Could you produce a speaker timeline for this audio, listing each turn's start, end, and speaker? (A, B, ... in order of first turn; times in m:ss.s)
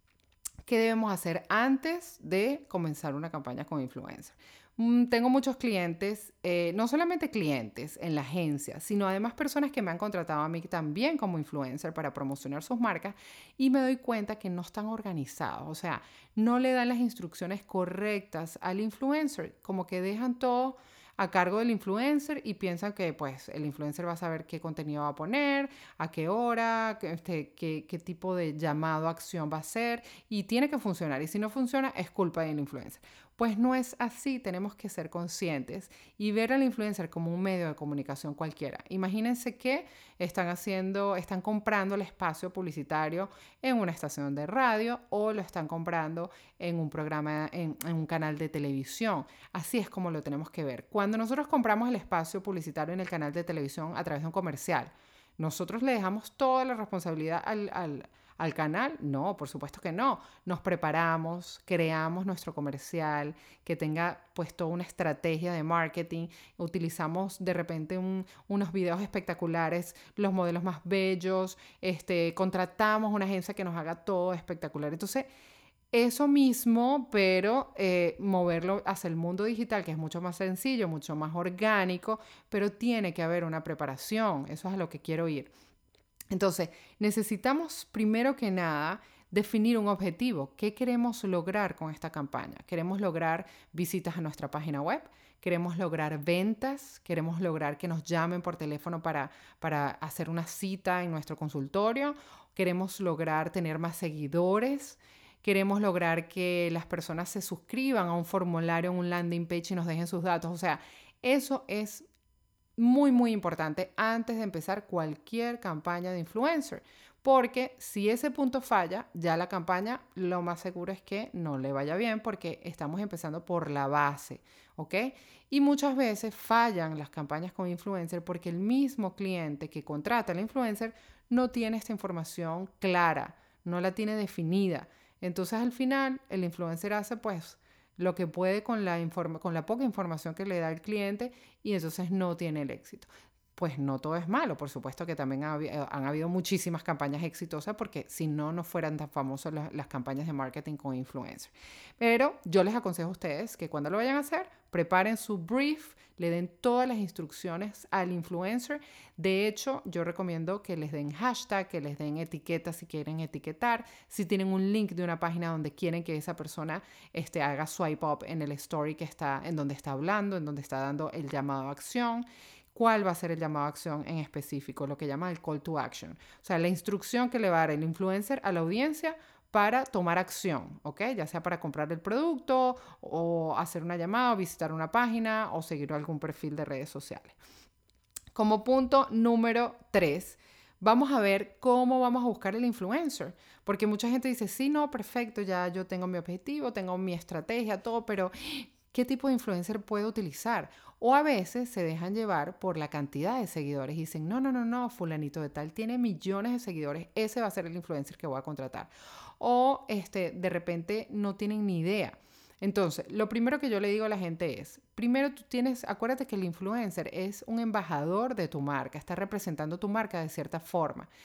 0:00.6-1:15.3 A
1:15.9-1:25.5 A
1:26.3-1:52.1 A
1:52.8-3:07.4 A
3:08.3-3:41.1 A